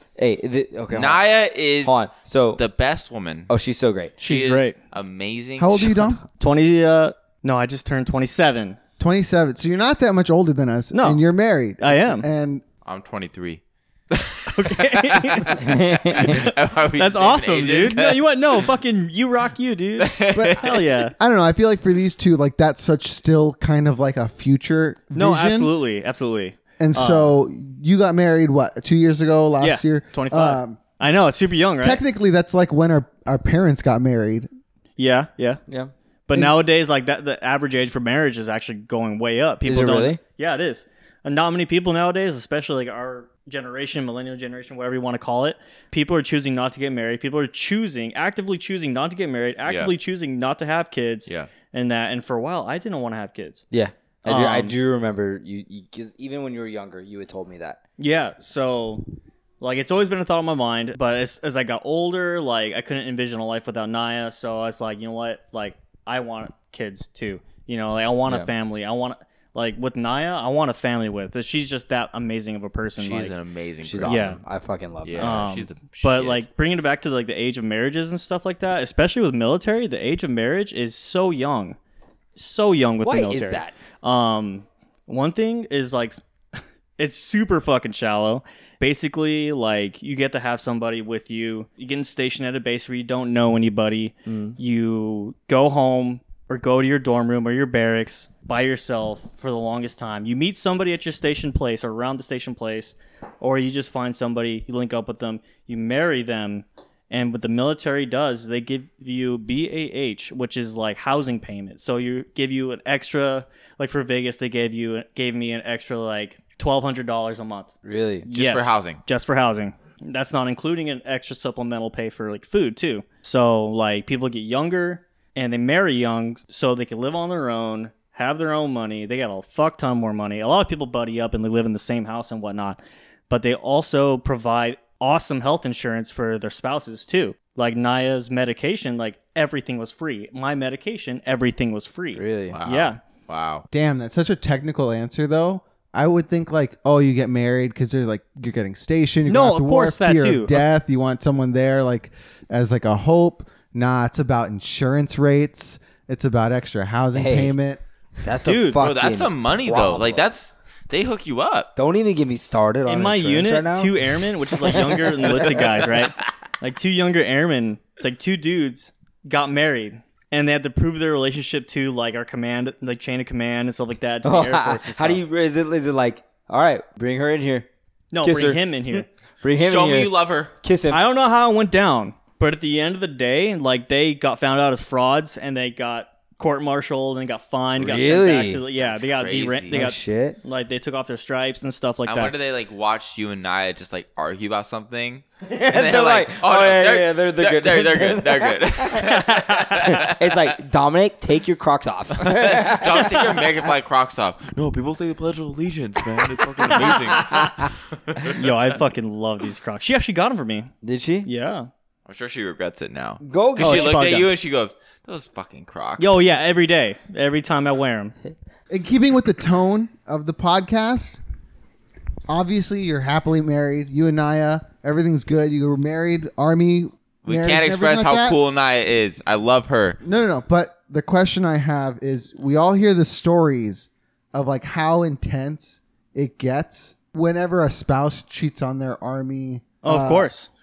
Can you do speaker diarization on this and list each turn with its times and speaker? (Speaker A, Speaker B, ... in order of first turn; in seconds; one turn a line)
Speaker A: 0.2-1.2
Speaker B: 0.9-2.0
Speaker A: 1.8-2.6
Speaker B: 2.5-3.5
Speaker A: 3.5-4.2
Speaker C: 4.2-4.7
Speaker B: 4.2-6.0
Speaker D: 5.6-6.2
Speaker C: 6.4-8.8
Speaker D: 9.0-12.6
Speaker C: 10.9-11.2
Speaker C: 11.8-12.2
Speaker B: 12.8-18.2
Speaker C: 14.5-21.1
Speaker A: 15.6-16.4
Speaker B: 20.0-20.9
Speaker D: 20.3-25.7
Speaker C: 25.1-27.4
Speaker D: 26.8-30.8
Speaker C: 29.6-32.0
Speaker D: 31.8-34.5
Speaker C: 35.0-35.6
Speaker C: 36.3-53.6
Speaker A: 39.6-40.2
Speaker B: 49.6-49.9
Speaker A: 53.7-57.8
Speaker C: 54.2-54.7
Speaker C: 58.0-59.0
Speaker C: 59.6-73.3
Speaker B: 73.0-74.4
Speaker A: 73.8-75.5
Speaker C: 74.0-74.4
Speaker B: 75.0-76.4
Speaker C: 75.2-81.8
Speaker C: 82.3-117.7
Speaker A: 83.0-83.7
Speaker A: 94.3-94.5
Speaker A: 117.8-118.3
Speaker C: 118.2-143.0
Speaker B: 118.3-119.0
Speaker A: 142.1-142.6
Speaker B: 142.5-143.6
Speaker D: 143.7-157.8
Speaker C: 149.3-150.6
Speaker A: 157.1-157.5
Speaker A: 158.2-160.2
Speaker C: 158.4-158.8
Speaker B: 158.8-161.7
Speaker A: 161.8-165.9
Speaker C: 162.8-175.2
Speaker A: 174.2-177.7
Speaker C: 178.1-179.1
Speaker A: 178.2-181.0
Speaker B: 179.6-180.5
Speaker C: 180.9-192.3
Speaker A: 187.8-188.6
Speaker B: 188.8-189.8
Speaker A: 189.7-190.4
Speaker B: 192.1-200.5
Speaker A: 195.4-203.5
Speaker B: 202.2-208.4
Speaker A: 206.6-207.7
Speaker C: 206.8-207.5
Speaker C: 208.3-210.7
Speaker A: 210.8-211.3
Speaker C: 211.2-211.7
Speaker B: 212.1-216.1
Speaker A: 213.2-214.2
Speaker C: 213.6-214.3
Speaker C: 216.0-218.1
Speaker D: 218.7-221.2
Speaker D: 222.3-228.4
Speaker B: 227.2-230.0
Speaker D: 230.0-240.3
Speaker C: 239.8-240.5